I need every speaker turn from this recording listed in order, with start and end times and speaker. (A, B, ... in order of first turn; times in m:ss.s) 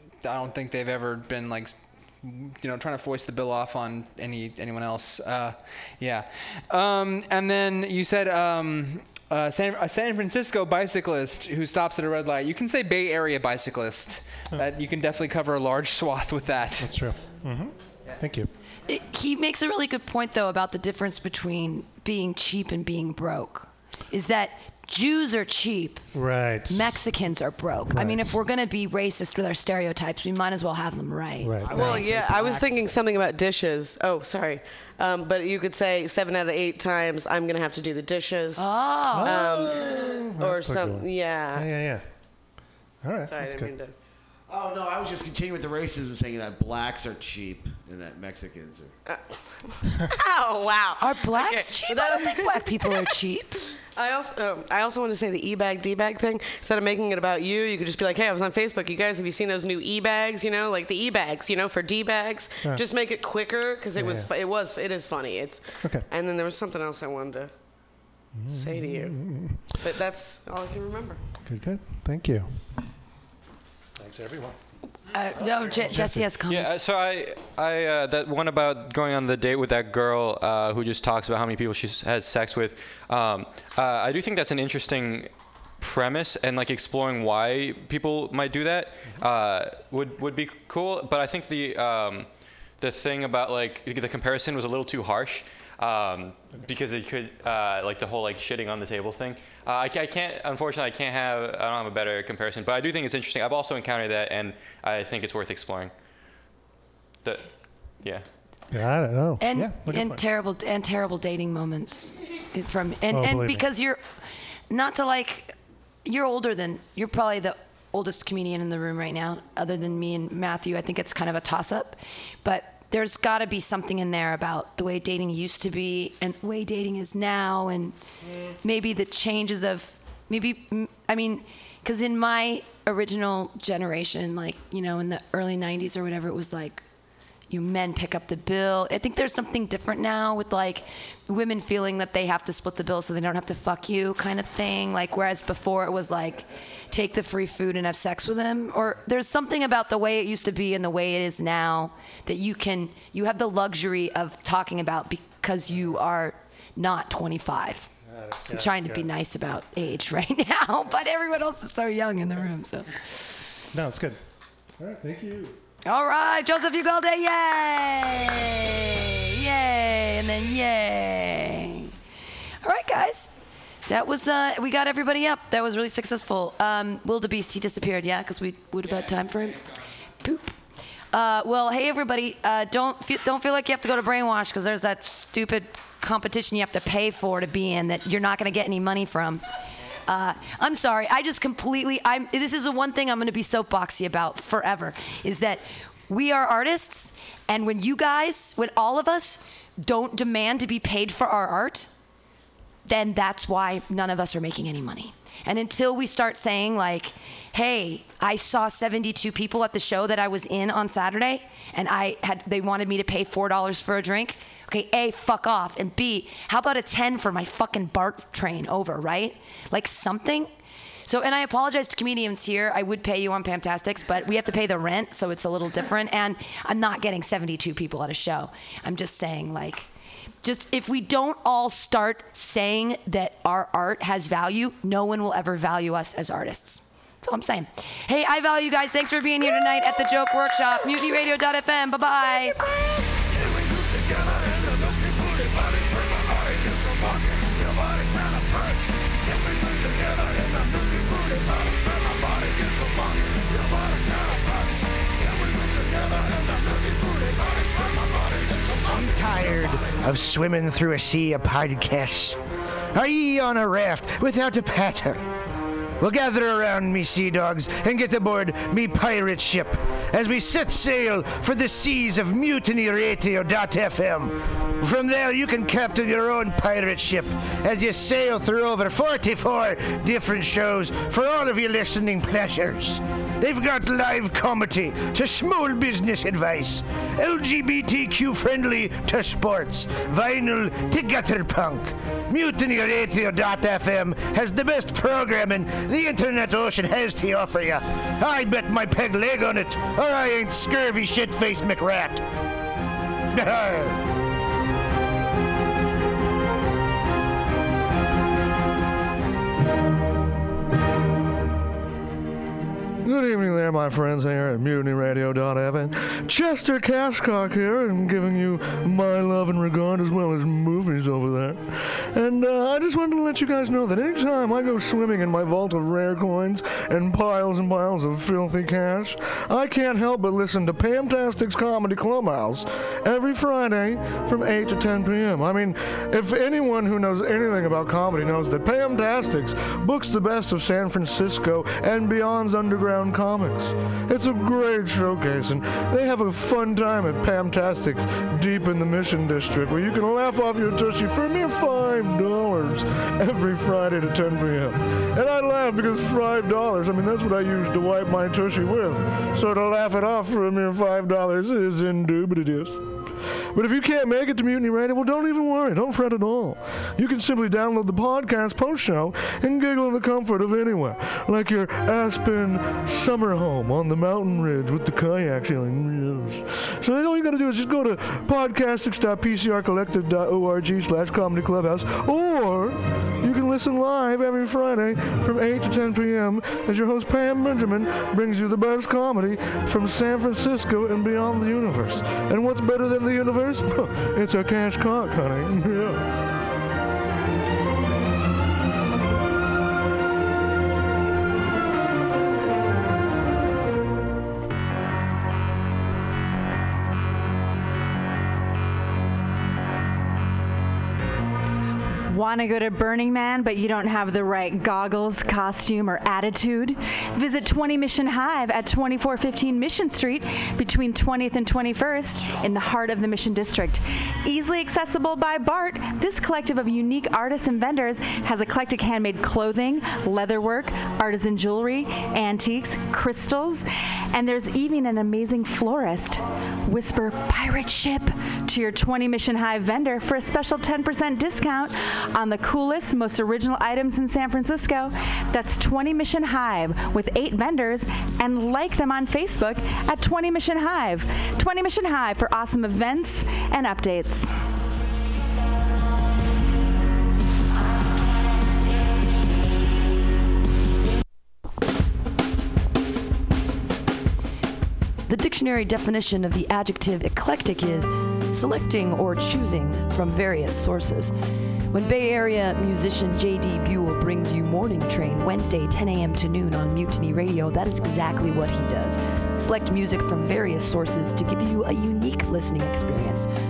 0:00.2-0:16.9 A
0:16.8-0:18.5 B
0:18.9-0:26.0 C
0:26.1-0:26.9 B
0:26.7-0:32.2 C
0:27.9-0:28.4 B
0:31.4-0:32.1 B
0:31.7-0:38.6 D
0:38.6-0:39.4 C
0:39.1-0:42.0 B
0:39.2-0:41.7 D
0:43.0-0:43.7 B
0:43.2-0:43.9 D
0:44.5-0:48.9 E
0:49.1-0:49.4 D
0:50.1-0:53.2 D
0:51.0-0:53.5 C
0:53.8-1:07.5 D
1:04.0-1:04.3 B
1:08.3-1:09.6 B
1:08.5-1:09.2 D
1:09.8-1:11.2 D
1:11.4-1:12.5 B
1:14.0-1:14.6 B
1:15.1-1:16.8 C
1:15.8-1:16.4 B
1:16.6-1:25.2 F
1:25.8-1:32.2 F
1:32.8-1:36.3 F
1:36.8-1:38.8 F
1:39.7-1:41.8 F
1:42.7-1:44.0 F
1:48.7-1:50.2 B
1:49.4-1:54.1 C
1:53.1-1:53.6 B
1:54.7-2:08.0 C
2:08.6-2:16.8 C
2:17.5-2:37.9 C
2:38.0-2:39.1 B
2:38.5-2:43.3 C
2:43.7-2:44.2 B
2:44.8-2:45.6 B
2:45.8-2:51.9 C
2:52.6-2:53.3 C
2:53.9-2:59.7 C
3:00.2-3:00.6 C
3:01.1-3:09.4 C
3:10.1-3:21.9 C
3:22.8-3:40.5 C
3:41.0-3:49.9 C
3:50.4-4:02.6 C
4:18.8-4:22.4 G
4:22.9-4:25.2 G
4:26.0-5:02.2 G
5:03.3-5:04.0 G
5:13.0-6:02.8 H
6:03.5-6:36.1 H
6:52.1-7:34.3 I
7:45.1-7:51.1 C
7:51.7-8:03.3 C